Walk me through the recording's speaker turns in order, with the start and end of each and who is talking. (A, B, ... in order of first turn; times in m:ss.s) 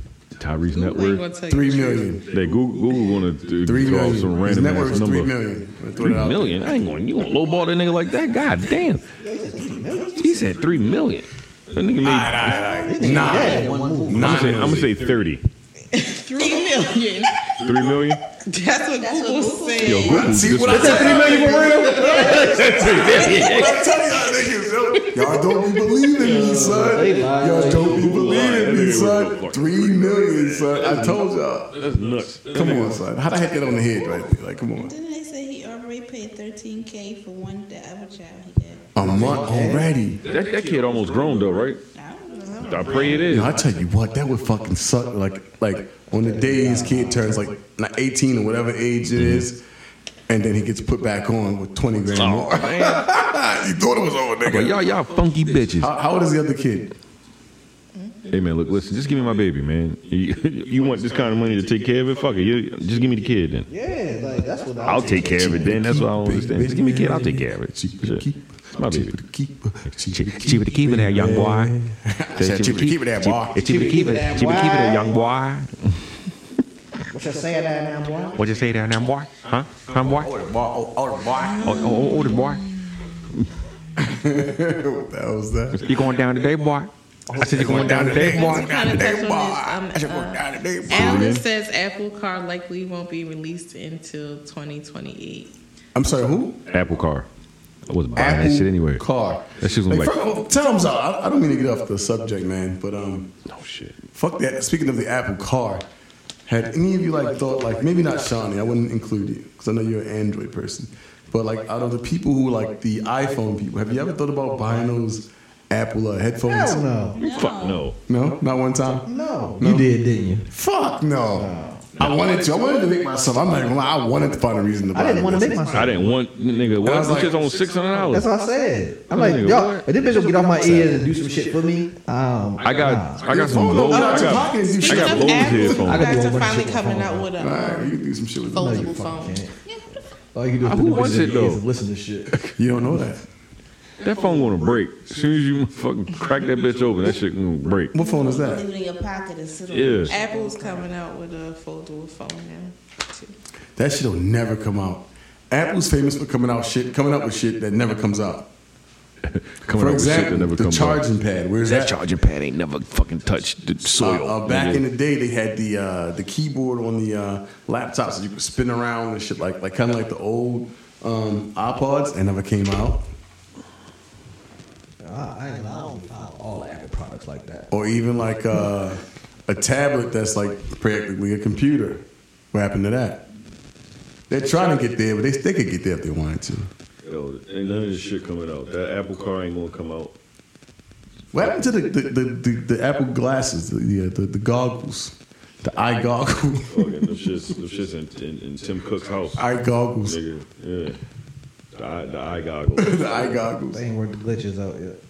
0:00.4-0:01.2 A
0:00.7-0:02.2 B
0:01.5-0:02.2 C
0:02.3-0:05.3 A
0:03.6-0:06.7 C
0:06.0-0:09.0 A
0:09.2-0:10.4 D
0:10.2-0:10.8 E
0:10.2-0:12.7 A
0:12.0-0:15.0 C
0:12.8-0:14.6 D
0:13.2-0:14.1 E
0:14.1-0:15.4 A
0:15.9-0:17.5 B
0:16.4-0:16.9 F
0:17.6-0:18.2 A
0:18.4-0:24.5 B
0:18.9-0:20.2 F
0:19.8-0:23.9 A
0:20.0-0:31.8 C
0:20.7-0:23.0 D
0:26.2-0:28.2 D
0:26.2-0:26.7 A
0:27.5-0:31.2 A
0:31.8-0:33.0 A
0:31.8-0:32.8 E
0:32.5-0:34.9 C
0:34.7-0:38.9 F
0:39.0-0:40.2 C
0:39.0-0:39.9 D
0:40.2-0:41.7 E
0:40.2-0:41.8 A
0:42.0-0:43.3 F
0:42.3-0:43.3 B
0:42.6-0:43.6 A
0:42.9-0:43.6 E
0:43.3-0:49.6 C
0:46.2-0:47.4 D
0:49.2-0:49.5 A
0:50.3-0:54.8 C
0:52.1-0:53.2 A
0:54.4-0:55.9 A
0:54.8-0:55.9 E
0:55.8-0:57.0 C
0:58.0-0:58.3 B
0:58.3-1:03.7 A
1:00.7-1:01.8 E
1:03.7-1:05.8 D
1:04.8-1:09.2 A
1:05.1-1:14.2 C
1:10.2-1:10.6 A
1:10.5-1:11.7 E
1:12.4-1:15.7 E
1:13.6-1:15.2 D
1:17.1-1:18.4 D
1:18.4-1:20.3 E
1:19.9-1:21.9 C
1:21.4-1:23.2 B
1:21.6-1:22.6 E
1:24.0-1:25.8 C
1:25.8-1:29.0 E
1:25.8-1:26.1 A
1:27.3-1:31.4 C
1:27.9-1:35.6 B
1:30.9-1:31.4 A
1:36.0-1:36.6 C
1:36.7-1:37.3 A
1:37.9-1:39.0 A
1:38.2-1:43.3 C
1:39.6-1:40.4 A
1:43.5-1:44.0 A
1:44.1-1:45.9 C
1:46.5-1:57.1 C
1:56.4-1:57.2 D
1:57.2-1:57.9 F
1:57.2-1:58.0 A
1:58.1-1:59.9 C
1:59.1-2:00.5 D
2:00.5-2:06.1 C
2:01.4-2:01.8 D
2:04.9-2:06.1 D
2:05.7-2:08.3 A
2:06.8-2:07.3 C
2:07.1-2:08.2 E
2:08.1-2:13.3 D
2:09.1-2:09.9 A
2:10.3-2:10.7 E
2:10.7-2:11.0 A
2:12.6-2:13.5 E
2:12.6-2:16.3 A
2:13.2-2:15.9 C
2:13.9-2:19.5 B
2:15.8-2:17.3 D
2:17.4-2:19.0 C
2:18.6-2:19.5 D
2:20.3-2:22.3 D
2:20.6-2:21.6 A
2:22.6-2:23.2 C
2:24.0-2:27.9 A
2:24.1-2:24.6 E
2:27.9-2:28.7 C
2:28.0-2:30.9 F
2:29.7-2:30.1 A
2:30.1-2:33.3 B
2:33.8-2:38.5 C
2:39.3-2:41.0 A
2:39.7-2:42.0 C
2:42.0-2:44.8 A
2:43.9-2:53.1 C
2:55.0-2:57.7 D
2:57.7-3:03.2 C
3:04.3-3:06.7 C
3:07.0-3:10.1 A
3:11.3-3:16.9 C
3:11.4-3:11.7 A
3:16.7-3:19.4 A
3:19.4-3:20.2 C
3:20.0-3:21.0 A
3:21.7-3:23.4 A
3:22.8-3:23.8 C
3:23.7-3:25.0 D